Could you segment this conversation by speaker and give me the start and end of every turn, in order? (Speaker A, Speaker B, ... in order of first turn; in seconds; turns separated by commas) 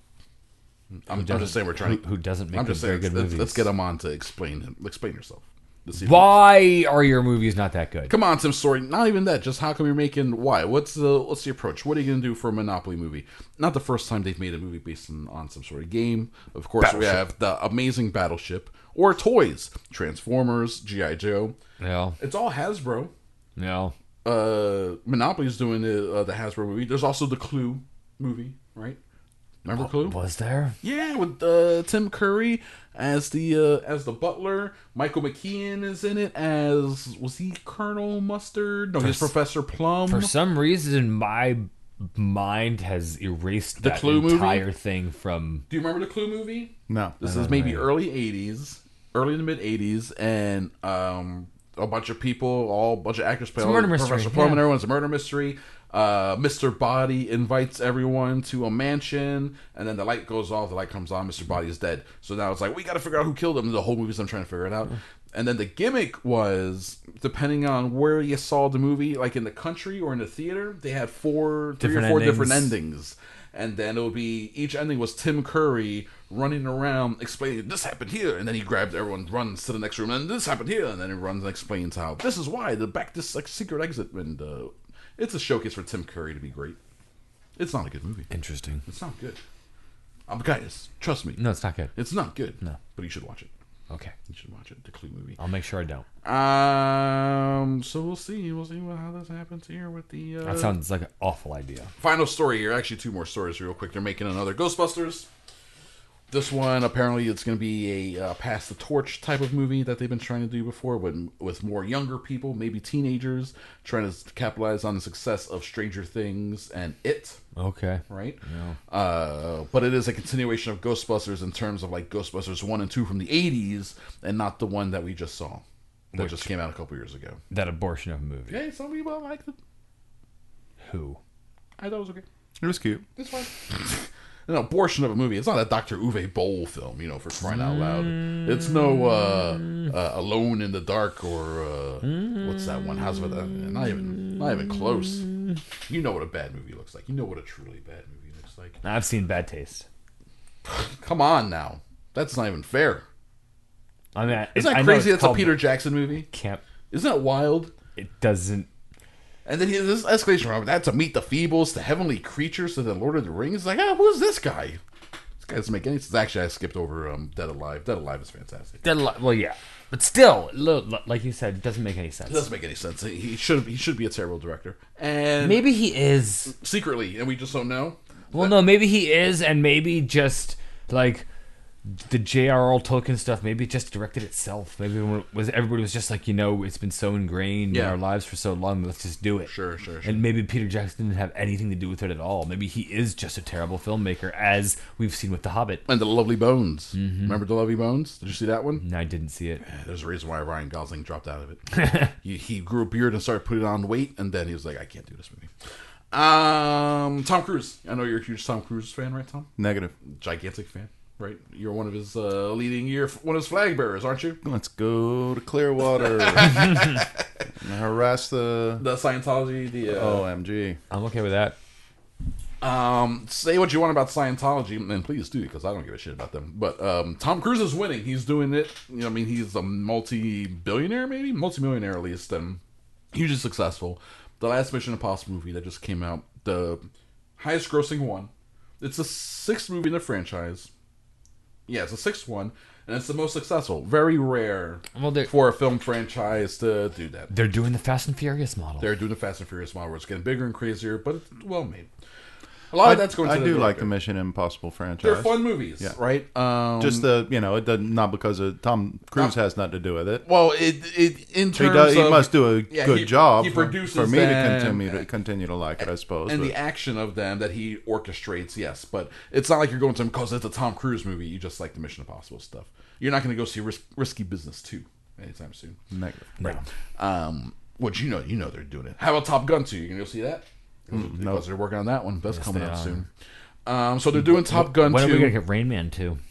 Speaker A: 1.1-6.4, Speaker B: 1.1-3.7, Speaker B: 6.0-8.1, Speaker A: 8.1-21.6, Speaker B: 16.8-17.2, Speaker B: 21.8-22.2, Speaker A: 22.2-23.1, Speaker B: 23.6-23.9, Speaker A: 24.2-29.0, Speaker A: 29.6-30.2, Speaker B: 29.8-30.8, Speaker A: 30.8-40.3, Speaker B: 39.0-39.3, Speaker B: 40.1-45.7, Speaker A: 43.8-44.6, Speaker A: 45.7-86.8, Speaker C: 46.9-47.2, Speaker B: 47.2-47.9, Speaker B: 53.6-54.7, Speaker B: 71.8-72.7, Speaker A: 87.6-88.3, Speaker B: 88.3-88.8, Speaker A: 88.9-89.4, Speaker A: 90.3-91.4, Speaker B: 91.4-91.9, Speaker A: 92.0-93.5, Speaker A: 94.3-95.4, Speaker B: 95.4-96.0, Speaker A: 96.2-100.8, Speaker B: 100.4-101.9, Speaker A: 102.0-105.3, Speaker A: 106.3-117.4, Speaker B: 117.6-118.8, Speaker A: 118.1-127.4, Speaker B: 126.2-126.5, Speaker B: 127.5-128.6, Speaker A: 128.5-129.6, Speaker B: 130.8-131.2, Speaker A: 131.8-132.2, Speaker C: 132.6-133.1, Speaker A: 133.2-145.3, Speaker B: 137.7-138.4, Speaker B: 142.1-142.4, Speaker A: 145.9-148.8, Speaker B: 148.8-149.9, Speaker A: 150.7-153.0, Speaker B: 154.2-155.7, Speaker A: 154.5-156.3, Speaker B: 156.3-156.6, Speaker A: 156.9-157.7, Speaker B: 157.9-158.7, Speaker A: 159.4-164.8, Speaker A: 165.4-168.8, Speaker B: 168.8-172.5, Speaker A: 172.3-175.7, Speaker B: 175.4-176.5, Speaker A: 176.5-178.6, Speaker B: 178.3-181.3, Speaker B: 181.9-189.5, Speaker A: 187.7-188.0, Speaker A: 189.5-190.2, Speaker B: 190.0-195.8, Speaker A: 195.9-198.8, Speaker B: 196.9-197.4, Speaker B: 198.8-199.6, Speaker A: 199.6-205.5, Speaker B: 201.8-202.1, Speaker A: 206.1-209.5, Speaker C: 209.6-209.9, Speaker A: 210.1-214.4, Speaker C: 214.4-216.8, Speaker A: 215.9-217.1, Speaker C: 217.6-218.9, Speaker A: 218.8-220.3, Speaker C: 219.8-220.8, Speaker B: 220.9-221.6, Speaker A: 222.6-232.6, Speaker A: 233.1-236.8, Speaker A: 237.4-240.7, Speaker A: 241.7-247.3, Speaker B: 244.9-245.3, Speaker B: 247.3-248.9, Speaker A: 248.8-251.9, Speaker A: 252.7-253.9, Speaker C: 252.8-255.9, Speaker A: 255.0-257.1, Speaker C: 256.8-260.2, Speaker A: 260.2-265.1, Speaker C: 261.6-266.6, Speaker A: 265.8-275.8, Speaker C: 275.9-276.6, Speaker A: 277.0-283.1, Speaker C: 280.9-281.4, Speaker B: 282.3-283.1, Speaker A: 283.7-285.4, Speaker B: 284.2-286.2